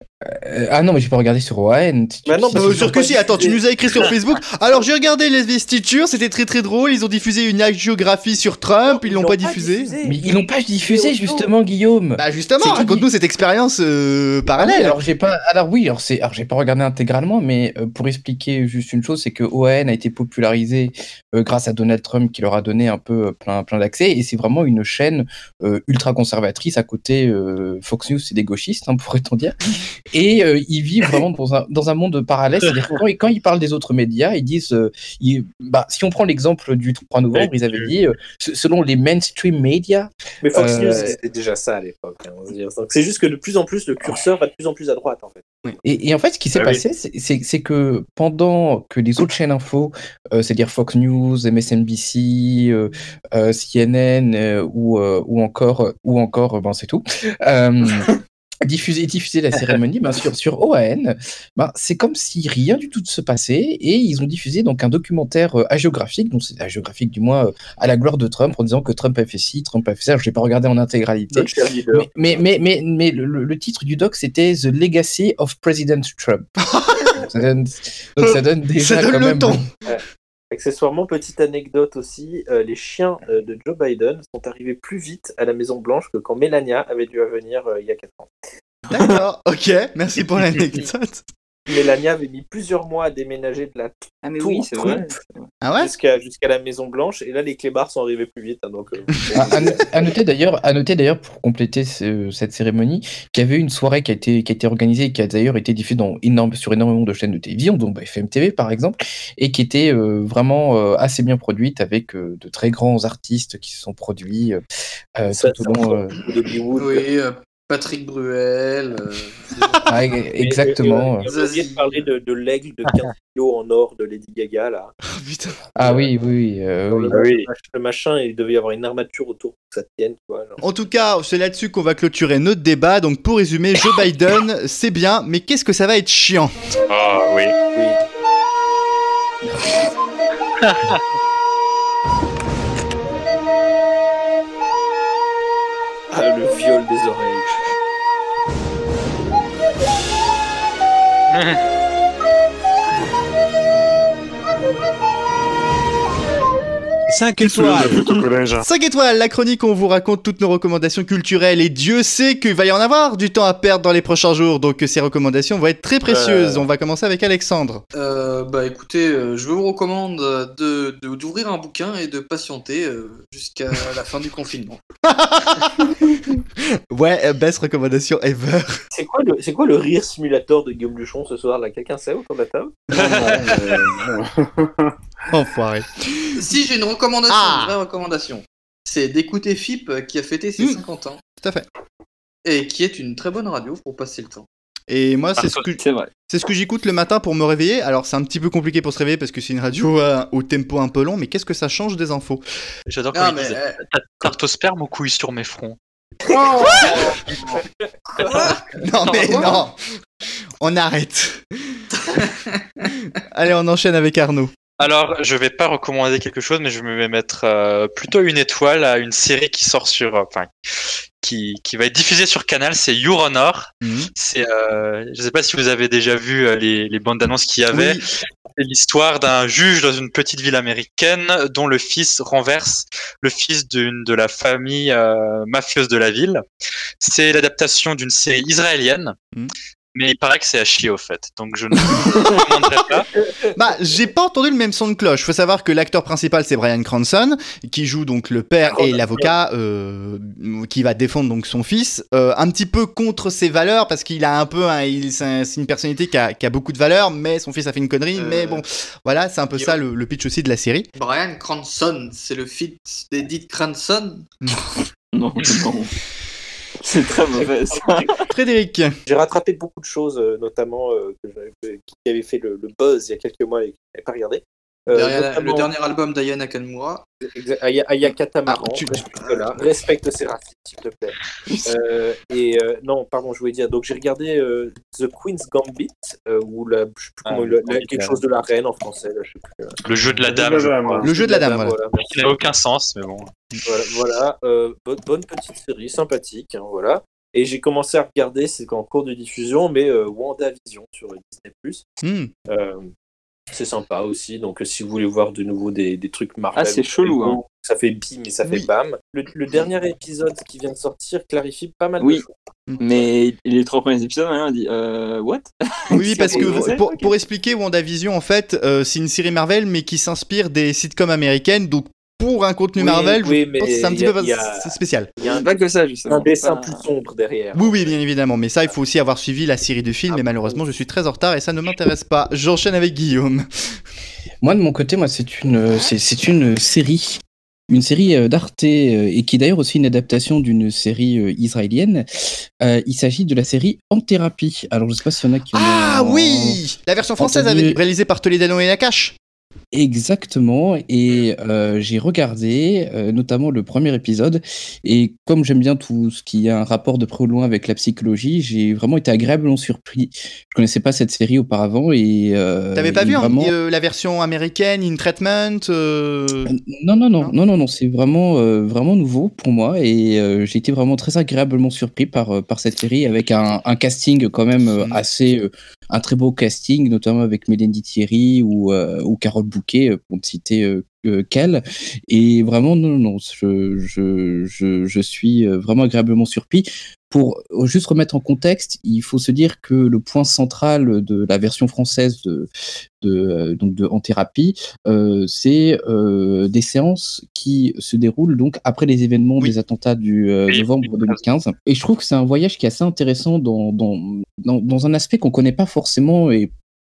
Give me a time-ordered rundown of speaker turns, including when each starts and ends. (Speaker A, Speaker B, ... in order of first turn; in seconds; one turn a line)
Speaker A: 0.2-3.1
Speaker B: 2.2-3.6
Speaker C: 2.5-9.9
Speaker B: 8.8-11.5
Speaker A: 10.0-13.0
Speaker C: 12.2-15.0
Speaker A: 14.6-29.5
Speaker A: 30.1-41.2
Speaker D: 37.3-37.9
Speaker B: 40.4-45.5
Speaker A: 45.8-58.1
Speaker D: 46.5-46.8
Speaker A: 58.6-76.5
Speaker B: 71.3-72.4
Speaker C: 76.7-77.1
Speaker A: 77.1-79.7
Speaker C: 78.2-79.7
Speaker B: 79.8-88.3
Speaker C: 88.9-91.3
Speaker B: 91.7-95.1
Speaker E: 94.2-95.5
Speaker C: 95.6-95.9
Speaker B: 95.8-100.2
Speaker A: 99.3-114.6
Speaker A: 115.2-116.2
Speaker B: 115.3-117.1
Speaker F: 116.8-119.5
Speaker A: 119.9-121.2
Speaker B: 120.4-124.9
Speaker F: 121.2-122.1
Speaker C: 125.1-125.6
Speaker A: 125.8-127.2
Speaker B: 125.8-126.1
Speaker B: 126.9-130.6
Speaker G: 127.1-127.5
Speaker C: 130.6-136.5
Speaker G: 136.9-137.5
Speaker B: 137.7-138.0
Speaker G: 140.6-141.0
Speaker B: 146.1-147.5
Speaker G: 151.3-151.6
Speaker C: 157.2-158.0
Speaker D: 157.4-158.7
Speaker C: 158.6-167.8
Speaker D: 166.0-166.7
Speaker F: 167.9-174.8
Speaker C: 175.1-175.9
Speaker C: 176.9-178.8
Speaker B: 178.9-182.9
Speaker D: 182.9-184.9
Speaker G: 182.9-183.8
Speaker C: 185.3-186.4
Speaker F: 186.3-191.2
Speaker C: 187.3-187.8
Speaker C: 191.4-191.7
Speaker F: 192.4-194.4
Speaker C: 194.9-202.4
Speaker G: 195.4-195.7
Speaker E: 195.8-196.1
Speaker G: 202.9-205.8
Speaker F: 203.1-203.8
Speaker D: 206.3-207.2
Speaker B: 206.4-206.7
Speaker G: 206.5-207.6
Speaker G: 208.2-209.6
Speaker F: 208.2-209.6
Speaker C: 208.8-209.8
Speaker C: 210.6-211.8
Speaker F: 212.0-212.9
Speaker C: 213.3-214.5
Speaker G: 214.8-220.5
Speaker G: 221.2-228.0
Speaker C: 223.8-224.1
Speaker C: 227.7-228.0
Speaker G: 228.6-236.4
Speaker G: 237.0-239.2
Speaker G: 239.9-243.1
Speaker C: 243.5-260.9
Speaker B: 248.8-249.3
Speaker F: 258.1-258.6
Speaker F: 260.9-264.2
Speaker E: 265.1-265.9
Speaker E: 266.8-268.2
Speaker B: 267.3-268.0
Speaker C: 268.3-268.9
Speaker B: 269.1-275.7
Speaker F: 274.9-277.0
Speaker B: 277.2-289.8
Speaker C: 278.5-279.0
Speaker F: 279.2-279.5
Speaker E: 281.5-281.7
Speaker G: 287.2-288.2
Speaker G: 289.8-291.0
Speaker D: 290.2-291.1
Speaker C: 291.0-291.8
Speaker B: 291.0-292.4
Speaker G: 292.0-293.3
Speaker B: 293.6-301.9
Speaker C: 302.0-302.3
Speaker B: 302.5-302.9
Speaker B: 303.5-313.0
Speaker E: 306.5-307.4
Speaker E: 312.8-317.1
Speaker C: 315.9-325.1
Speaker B: 316.2-316.8
Speaker B: 322.8-325.5
Speaker E: 325.2-326.8
Speaker B: 326.1-327.9
Speaker C: 327.5-333.8
Speaker B: 330.1-330.6
Speaker A: 334.4-342.1
Speaker A: 342.6-346.6
Speaker C: 345.5-349.1
Speaker A: 347.2-347.8
Speaker A: 349.7-363.5
Speaker C: 362.7-366.5
Speaker A: 366.4-392.5
Speaker A: 393.0-406.5
Speaker G: 400.5-401.2